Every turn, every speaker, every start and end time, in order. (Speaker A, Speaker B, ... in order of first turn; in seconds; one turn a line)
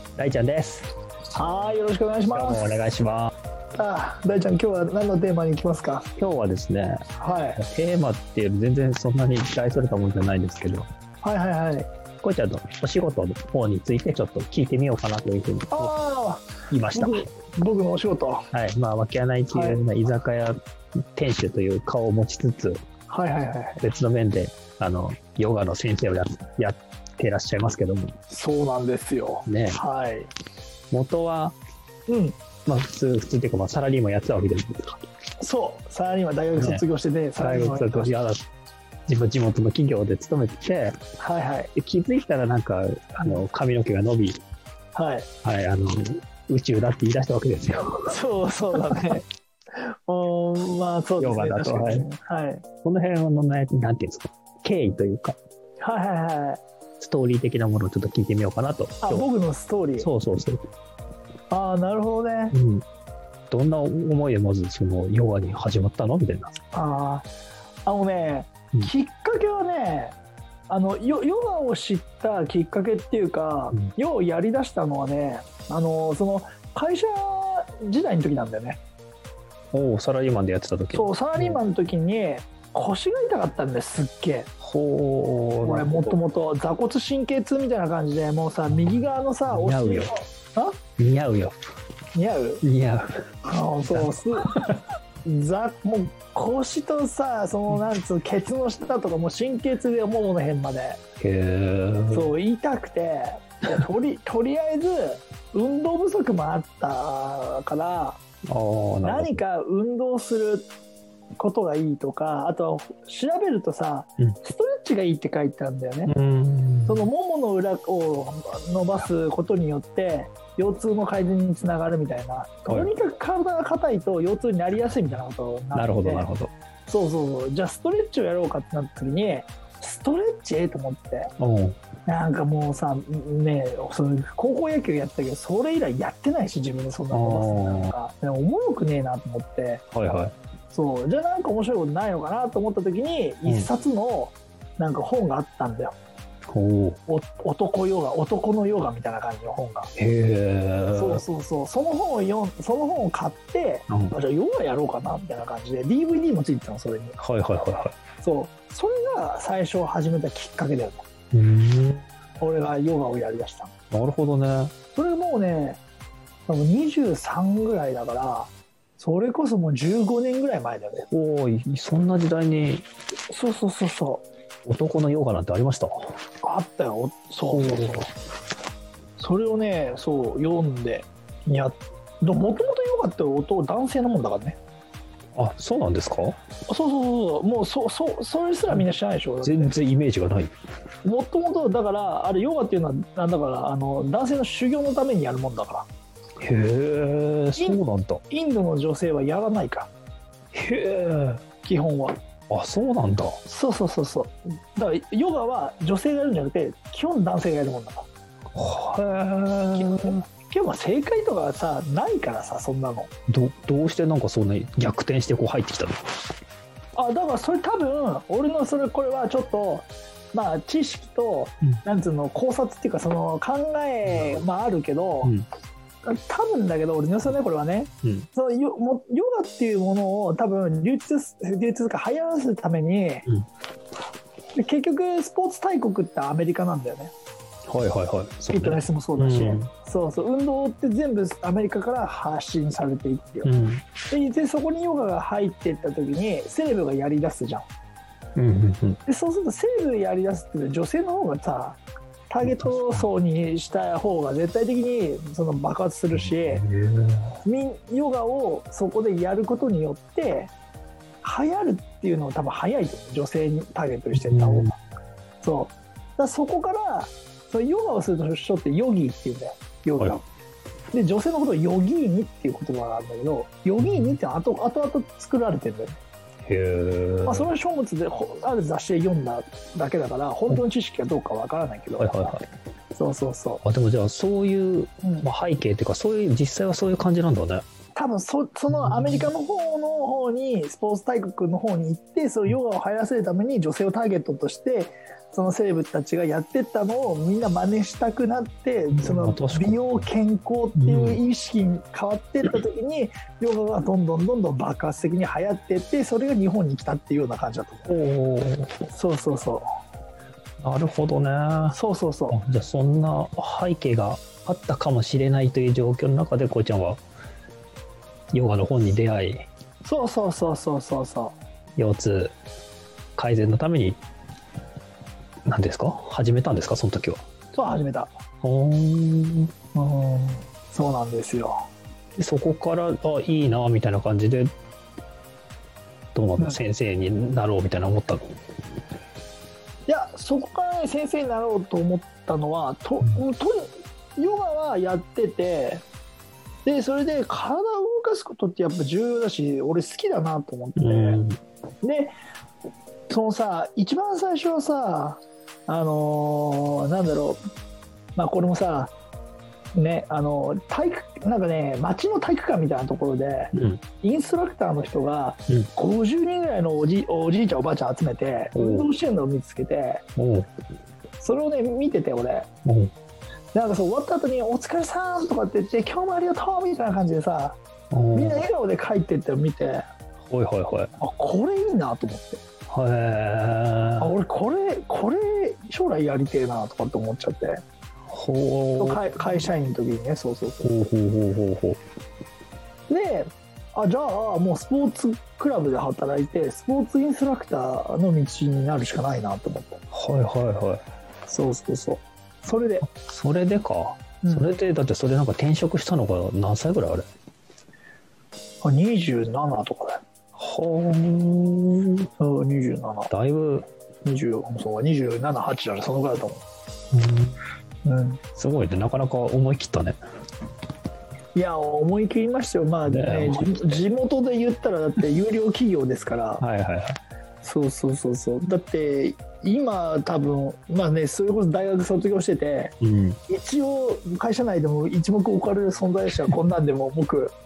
Speaker A: 0.1-0.9
Speaker B: 1.3-2.7
Speaker A: 2.3-3.3
Speaker B: 3.7-6.1
Speaker A: 6.2-7.0
Speaker B: 7.2-7.6
Speaker A: 7.6-10.9
Speaker B: 11.2-11.9
Speaker A: 12.2-15.9
Speaker B: 15.7-18.4
Speaker A: 16.7-17.2
Speaker A: 18.5-20.6
Speaker B: 19.5-19.8
Speaker A: 21.1-22.8
Speaker B: 23.1-23.8
Speaker A: 23.8-28.1
Speaker B: 28.3-30.3
Speaker A: 29.4-29.8
Speaker A: 30.9-31.6
Speaker B: 32.1-32.4
Speaker A: 32.6-35.0
Speaker B: 35.4-38.1
Speaker A: 36.5-36.8
Speaker A: 37.4-38.4
Speaker A: 39.1-41.0
Speaker B: 41.2-41.7
Speaker A: 41.7-44.4
Speaker B: 44.9-45.3
Speaker A: 45.4-48.1
Speaker B: 48.1-52.6
Speaker A: 51.2-52.0
Speaker A: 52.8-55.4
Speaker B: 55.8-56.6
Speaker A: 57.0-59.2
Speaker B: 59.0-60.1
Speaker A: 60.0-60.6
Speaker B: 61.5-62.5
Speaker A: 62.5-62.8
Speaker A: 63.5-66.6
Speaker B: 66.7-67.3
Speaker B: 67.8-70.2
Speaker B: 70.7-78.8
Speaker A: 79.7-81.6
Speaker B: 80.9-84.5
Speaker A: 84.6-86.2
Speaker B: 85.6-90.8
Speaker A: 88.7-90.1
Speaker A: 91.0-91.5
Speaker B: 92.1-92.6
Speaker A: 92.6-93.2
Speaker B: 93.4-94.5
Speaker A: 93.9-94.8
Speaker B: 95.2-101.0
Speaker A: 101.2-102.3
Speaker B: 102.1-108.2
Speaker A: 108.5-109.4
Speaker B: 109.0-110.7
Speaker B: 111.4-116.1
Speaker A: 116.0-117.1
Speaker B: 116.9-126.3
Speaker A: 125.7-126.5
Speaker B: 126.9-131.3
Speaker A: 131.4-131.8
Speaker B: 132.1-139.8
Speaker A: 137.1-137.9
Speaker A: 139.9-140.3
Speaker B: 140.7-145.9
Speaker A: 146.5-147.0
Speaker B: 147.1-149.9
Speaker A: 149.9-151.2
Speaker B: 150.9-157.2
Speaker A: 153.9-154.1
Speaker A: 157.2-157.9
Speaker B: 158.2-161.0
Speaker A: 161.3-162.0
Speaker B: 162.4-163.7
Speaker A: 163.9-164.7
Speaker B: 164.9-165.8
Speaker B: 166.5-171.1
Speaker A: 171.1-172.8
Speaker B: 173.3-174.2
Speaker A: 174.7-176.2
Speaker B: 176.4-178.1
Speaker A: 177.5-178.1
Speaker B: 179.2-184.6
Speaker A: 185.3-186.4
Speaker B: 186.7-189.7
Speaker A: 189.4-190.5
Speaker B: 191.0-195.9
Speaker A: 196.4-198.2
Speaker B: 197.6-199.9
Speaker A: 200.5-201.4
Speaker B: 201.6-202.2
Speaker A: 202.5-203.4
Speaker B: 203.4-208.1
Speaker A: 208.5-210.2
Speaker B: 209.7-213.1
Speaker A: 213.3-216.0
Speaker B: 216.9-225.3
Speaker A: 224.1-224.4
Speaker B: 226.0-233.2
Speaker B: 234.5-237.1
Speaker A: 237.7-239.7
Speaker B: 238.5-243.5
Speaker A: 243.4-243.8
Speaker B: 244.1-247.7
Speaker A: 248.3-249.0
Speaker B: 249.1-256.6
Speaker A: 252.4-253.0
Speaker A: 256.1-257.4
Speaker B: 257.4-260.5
Speaker B: 261.2-264.7
Speaker A: 264.1-264.7
Speaker B: 265.4-270.2
Speaker B: 270.9-276.0
Speaker A: 273.8-274.2
Speaker A: 276.4-277.5
Speaker B: 277.2-282.1
Speaker A: 282.0-282.4
Speaker B: 282.9-283.6
Speaker A: 283.6-287.6
Speaker B: 287.9-307.9
Speaker A: 288.7-289.3
Speaker A: 298.9-300.0
Speaker A: 300.8-301.2
Speaker A: 307.9-308.8
Speaker B: 308.9-309.7
Speaker A: 310.6-311.8
Speaker B: 311.7-312.4
Speaker A: 312.3-317.0
Speaker A: 318.3-319.4
Speaker B: 319.8-321.4
Speaker A: 321.8-322.3
Speaker A: 323.1-324.0
Speaker A: 325.4-327.2
Speaker B: 327.5-328.1
Speaker A: 328.4-329.5
Speaker B: 329.7-331.6
Speaker A: 332.2-334.5
Speaker A: 336.1-338.3
Speaker B: 339.9-345.8
Speaker B: 346.6-351.2
Speaker A: 350.8-351.4
Speaker B: 351.8-352.1
Speaker B: 353.1-357.4
Speaker B: 358.2-358.9
Speaker B: 359.7-370.0
Speaker A: 363.5-363.8
Speaker A: 368.5-368.9
Speaker A: 370.2-370.5
Speaker B: 371.2-372.5
Speaker A: 372.6-372.9
Speaker B: 373.5-377.6
Speaker A: 377.9-378.4
Speaker B: 378.1-379.9
Speaker A: 380.3-380.9
Speaker B: 381.0-382.4
Speaker A: 382.7-384.1
Speaker B: 384.0-387.6
Speaker A: 388.1-389.4
Speaker B: 388.8-390.7
Speaker A: 390.6-391.8
Speaker B: 392.9-399.8
Speaker A: 399.9-400.8
Speaker B: 401.3-402.9
Speaker A: 402.9-407.1
Speaker B: 404.2-404.6
Speaker B: 408.6-410.0
Speaker A: 410.4-412.1
Speaker B: 412.2-413.1
Speaker A: 413.1-413.7
Speaker B: 414.0-416.4
Speaker A: 416.9-417.4
Speaker B: 417.8-418.2
Speaker A: 418.4-420.0
Speaker B: 421.3-426.4
Speaker A: 422.9-423.8
Speaker A: 426.4-427.0
Speaker B: 427.4-432.7
Speaker A: 432.8-433.2
Speaker B: 433.3-437.3